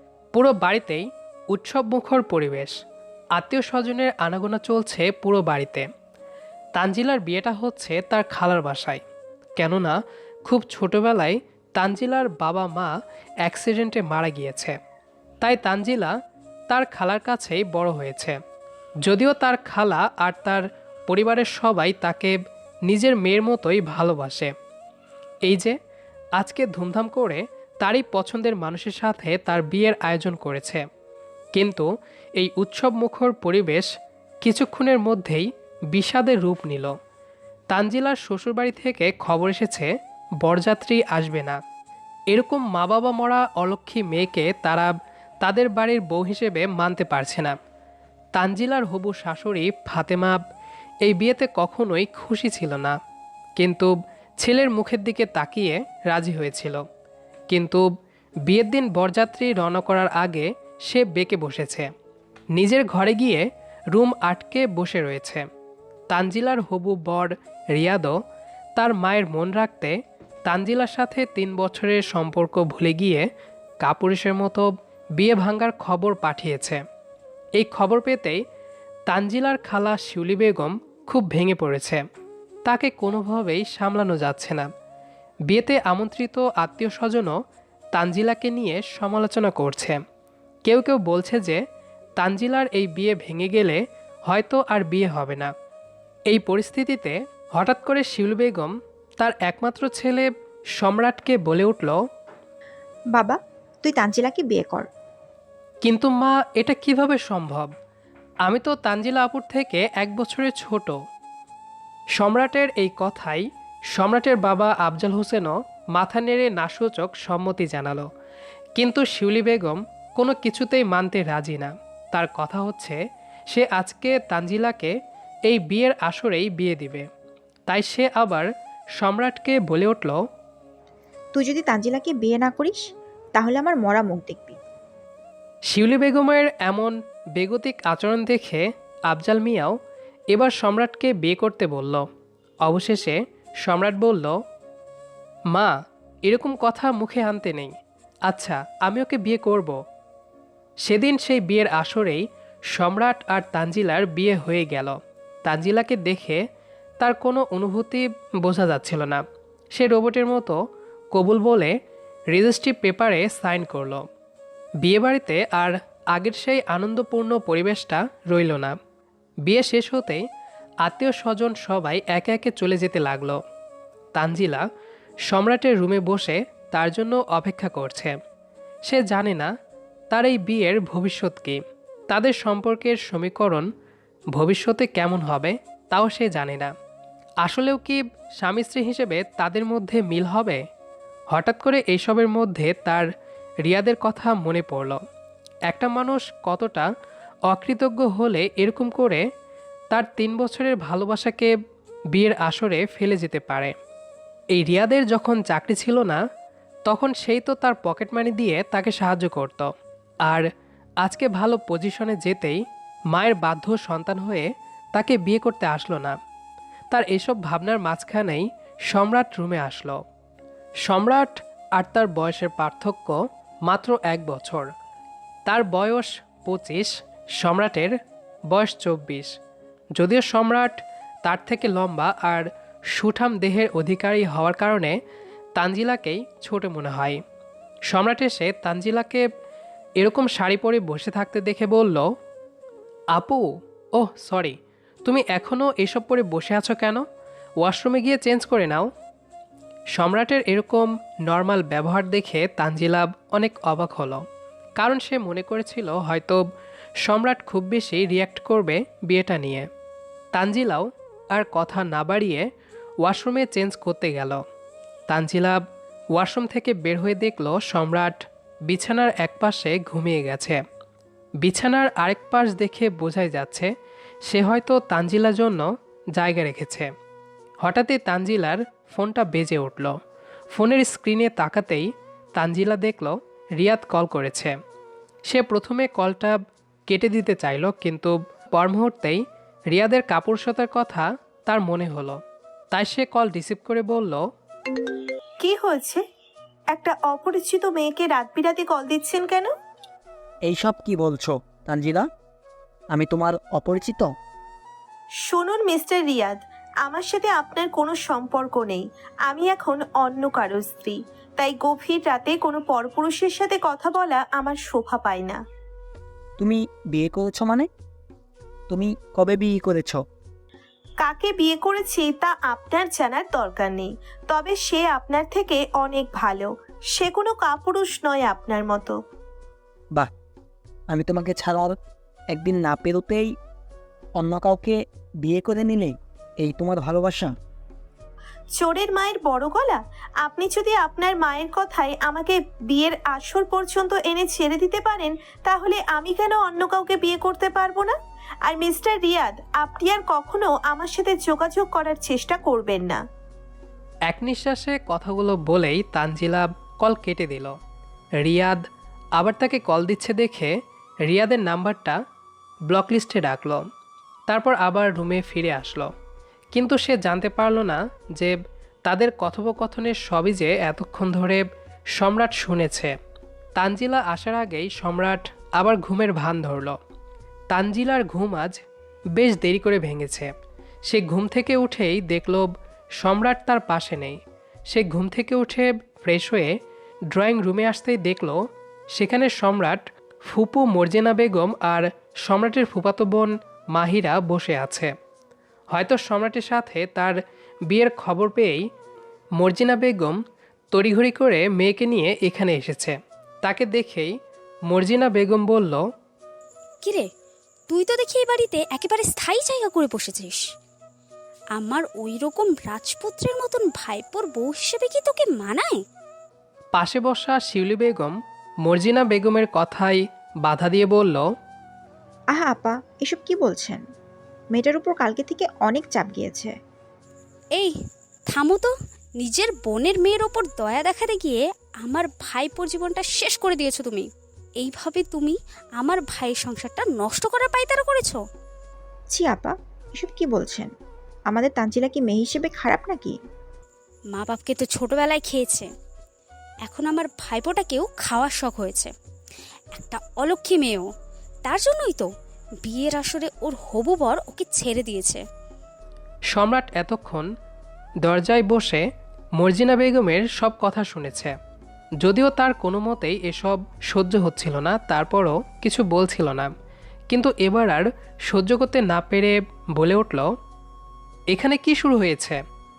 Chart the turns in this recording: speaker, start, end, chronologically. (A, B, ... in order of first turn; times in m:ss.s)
0:00.3-0:02.8 A
0:03.4-0:05.9 A
0:06.8-0:09.0 A
0:09.6-0:12.9 A
0:13.4-0:14.8 A
0:15.4-0:16.1 A
0:16.7-0:18.4 A
0:19.1-0:22.4 A
0:22.9-0:24.5 A
0:25.5-0:25.8 A
0:26.4-0:30.8 A
0:31.6-0:33.9 A
0:34.4-0:36.9 A
0:37.7-0:39.9 A
0:40.4-0:41.6 A
0:42.3-0:47.6 A
0:48.4-0:50.4 A
0:51.0-0:53.0 A
0:53.6-0:56.8 A
0:57.5-0:57.9 A
0:58.5-1:01.9 A
1:02.6-1:05.5 A
1:06.1-1:08.1 A
1:08.8-1:10.0 A
1:10.5-1:13.3 A
1:13.8-1:16.8 A
1:17.6-1:18.4 A
1:19.1-1:22.0 A
1:22.7-1:24.7 A
1:25.5-1:27.3 A
1:28.0-1:30.0 A
1:30.6-1:31.6 A
1:32.2-1:35.5 A
1:36.3-1:42.0 A
1:43.2-1:44.9 B
1:45.8-1:47.7 A
1:48.5-1:51.0 A
1:52.2-1:58.1 A
1:58.8-2:03.0 A
2:03.5-2:04.9 A
2:05.5-2:07.1 A
2:07.7-2:08.5 A
2:09.0-2:10.2 A
2:11.4-2:12.8 B
2:13.4-2:14.6 B
2:15.7-2:19.8 A
2:20.3-2:22.0 A
2:22.7-2:24.4 A
2:26.3-2:27.7 A
2:28.3-2:29.8 A
2:30.9-2:36.4 A
2:37.0-2:39.2 A
2:39.7-2:40.6 A
2:41.1-2:41.7 A
2:42.3-2:44.0 A
2:44.8-2:48.8 A
2:49.5-2:50.2 A
2:50.8-2:53.4 A
2:54.2-2:54.6 A
2:55.3-2:58.2 A
2:58.9-2:59.5 A
3:00.1-3:03.7 A
3:04.3-3:06.7 A
3:07.4-3:10.6 A
3:11.3-3:13.1 A
3:13.6-3:15.0 A
3:15.7-3:16.9 A
3:17.5-3:19.2 A
3:19.9-3:21.5 A
3:22.1-3:23.7 A
3:24.6-3:26.2 A
3:26.9-3:29.7 A
3:31.0-3:32.6 A
3:33.1-3:36.2 A
3:36.9-3:40.0 A
3:40.8-3:44.7 A
3:45.5-3:48.0 A
3:48.5-3:49.3 A
3:50.0-3:55.0 A
3:55.6-3:57.2 A
3:57.9-3:59.2 A
4:00.0-4:02.1 A
4:03.1-4:07.0 A
4:07.6-4:08.9 A
4:10.0-4:14.2 A
4:14.8-4:16.4 A
4:17.0-4:19.7 A
4:20.4-4:22.5 A
4:23.0-4:24.4 A
4:25.1-4:25.6 A
4:26.2-4:30.6 A
4:31.4-4:33.7 A
4:34.3-4:36.9 A
4:37.6-4:40.0 A
4:40.5-4:44.6 A
4:45.3-4:52.2 A
4:52.7-4:54.2 A
4:55.4-4:56.0 C
4:56.7-4:59.5 C
5:00.5-5:02.1 D
5:02.9-5:04.1 D
5:05.3-5:15.4 C
5:16.4-5:17.7 D
5:18.7-5:20.0 D
5:21.0-5:29.0 C
5:30.9-5:31.8 D
5:32.3-5:33.3 D
5:34.2-5:37.3 D
5:38.5-5:53.0 C
5:54.1-5:57.6 A
5:58.2-5:58.6 A
5:59.2-6:00.5 A
6:01.1-6:02.0 A
6:02.7-6:03.6 A
6:04.3-6:05.9 A
6:06.5-6:08.4 A
6:08.9-6:12.9 A
6:13.6-6:16.8 A
6:17.5-6:18.6 A
6:19.2-6:20.3 A
6:20.9-6:26.5 A
6:27.1-6:28.4 A
6:28.9-6:34.9 A
6:35.7-6:38.6 A
6:39.4-6:40.2 A
6:40.7-6:44.1 A
6:44.7-6:45.8 A
6:47.7-6:50.4 E
6:51.6-6:55.8 E
6:56.8-7:01.2 A
7:02.4-7:03.8 B
7:04.5-7:06.5 B
7:08.3-7:14.1 E
7:14.6-7:18.2 E
7:19.1-7:20.7 B
7:21.3-7:23.2 B
7:24.1-7:25.7 E
7:26.6-7:28.9 E
7:29.8-7:30.9 E
7:31.4-7:32.1 E
7:32.6-7:35.2 E
7:36.3-7:37.3 A
7:38.0-7:38.8 A
7:39.4-7:41.4 A
7:42.0-7:46.5 A
7:47.1-7:50.3 A
7:51.3-7:52.4 A